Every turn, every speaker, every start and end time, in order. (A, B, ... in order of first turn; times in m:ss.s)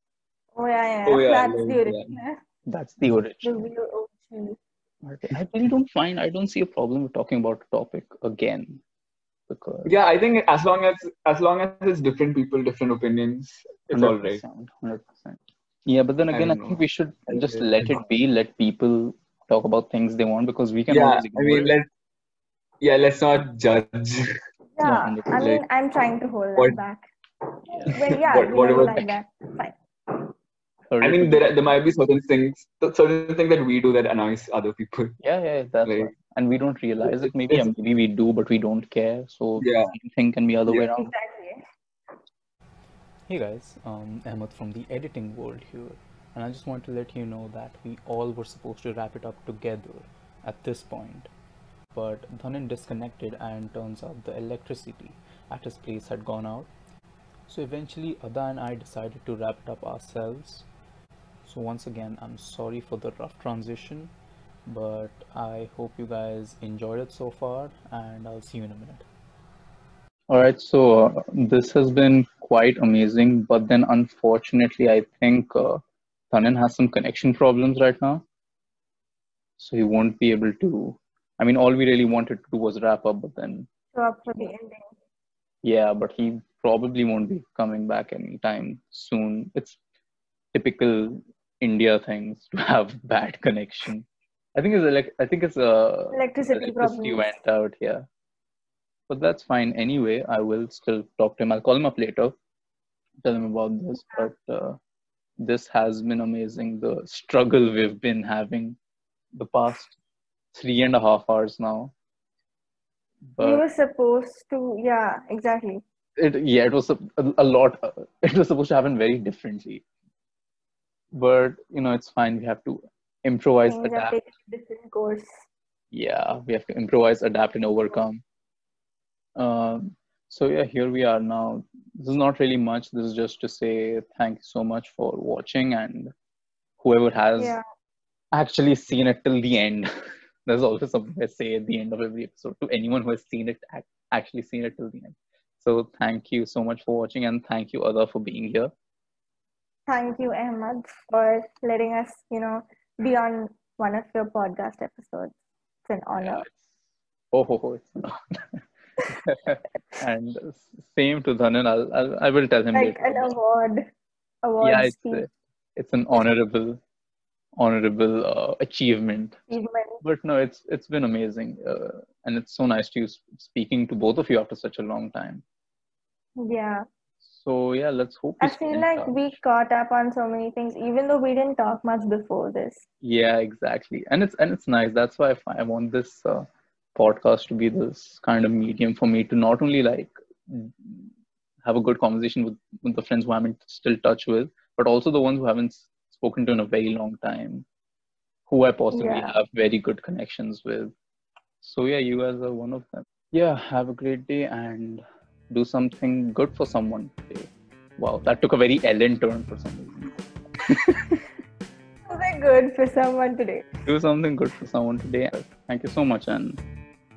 0:00.6-0:02.4 A
0:01.1-0:02.2 B
0:02.7-0:03.7 C
0:03.4-0:04.6 A
0:05.0-0:08.8 C
0:09.5-0:10.0 C
0:09.9-0:14.4 B
0:13.9-0:21.7 C
0:16.3-0:18.0 B
0:20.9-0:21.9 B
0:22.8-0:24.3 B
0:24.8-0:27.1 A
0:24.8-0:25.4 C
0:25.4-0:25.6 B
0:27.8-0:29.8 A
0:27.9-0:29.2 B
0:30.9-0:31.7 C
0:31.0-0:35.2 B
0:35.2-0:41.1 C
0:35.9-0:36.1 B
0:37.0-0:37.7 B
0:39.6-0:39.9 B
0:41.0-0:41.6 A
0:43.3-0:51.3 C
0:51.9-0:56.7 C
0:57.5-1:00.7 C
1:01.4-1:04.1 C
1:04.7-1:09.1 C
1:10.3-1:18.2 C
1:19.6-1:23.7 C
1:23.9-1:24.9 A
1:25.6-1:29.8 C
1:30.5-1:38.1 C
1:36.1-1:37.4 A
1:39.1-1:42.4 C
1:43.2-1:44.8 C
1:45.4-1:48.8 C
1:49.3-1:50.0 C
1:50.5-1:51.9 C
1:53.3-1:53.6 C
1:53.4-1:55.8 A
1:56.2-1:59.8 C
2:01.1-2:04.2 C
2:03.7-2:05.4 A
2:05.9-2:08.2 C
2:09.4-2:16.1 C
2:16.8-2:17.6 C
2:17.4-2:17.6 A
2:18.3-2:19.9 C
2:20.4-2:28.7 C
2:29.9-2:35.3 A
2:35.9-2:36.5 A
2:36.2-2:36.7 C
2:37.3-2:43.4 C
2:42.7-2:43.9 A
2:44.4-2:45.3 A
2:44.6-2:46.8 C
2:47.6-2:49.4 C
2:49.5-2:50.0 A
2:50.0-2:55.4 C
2:56.4-2:56.8 A
2:57.2-2:59.4 C
2:58.4-3:02.9 A
3:03.0-3:11.1 C
3:11.6-3:17.7 C
3:18.5-3:20.9 C
3:18.9-3:19.3 A
3:21.6-3:30.1 C
3:30.6-3:31.2 C
3:32.1-3:33.7 A
3:33.9-3:36.6 C